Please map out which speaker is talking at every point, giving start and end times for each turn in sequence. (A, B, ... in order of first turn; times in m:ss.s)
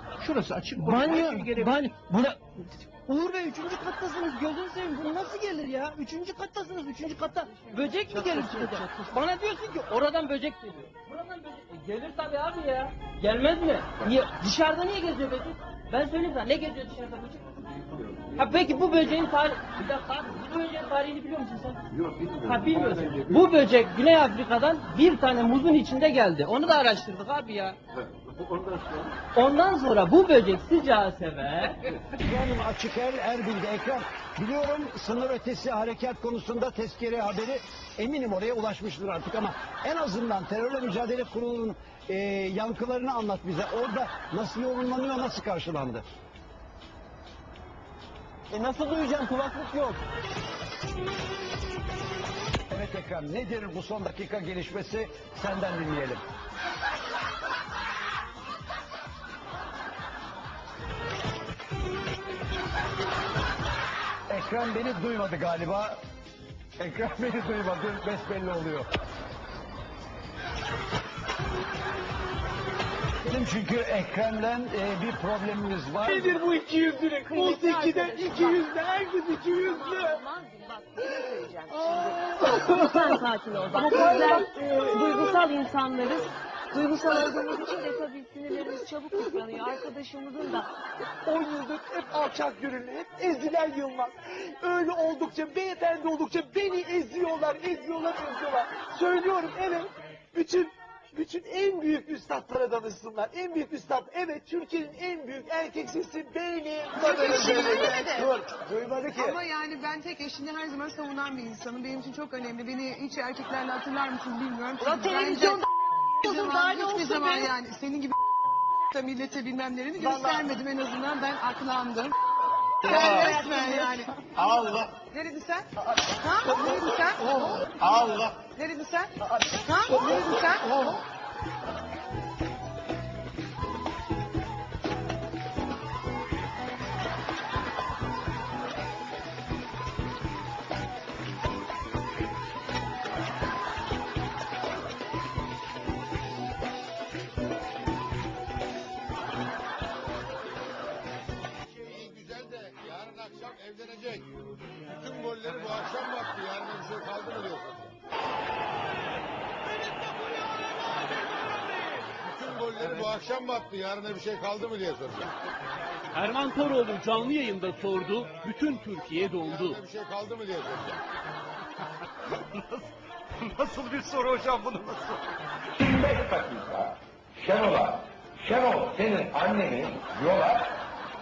0:00.7-0:17.8 A
0:01.2-0:01.5 B
0:18.3-0:21.8 A
0:22.4-0:27.8 A
0:29.3-0:31.8 A
0:32.2-0:46.0 C
0:49.4-0:49.9 B
0:52.7-0:56.2 C
1:04.3-1:06.0 C
1:06.8-1:08.9 C
1:13.2-1:16.4 C
1:16.1-1:20.2 B
1:17.2-1:18.6 D
1:19.8-1:30.7 D
1:21.0-1:25.4 B
1:27.2-1:27.8 B
1:28.5-1:29.8 B
1:31.2-1:49.3 B
1:47.1-1:48.1 D
1:49.2-1:55.6 E
1:56.2-1:58.1 E
1:58.9-2:02.1 E
2:02.8-2:03.4 F
2:02.8-2:04.1 E
2:04.4-2:05.0 F
2:05.1-2:07.2 E
2:06.5-2:08.4 F
2:08.5-2:09.1 E
2:09.6-2:10.7 E
2:10.6-2:11.0 F
2:31.6-2:34.3 G
2:34.9-2:37.9 G
2:42.2-2:45.3 G
2:46.1-2:49.8 H
2:49.3-2:51.0 G
2:55.7-3:00.8 I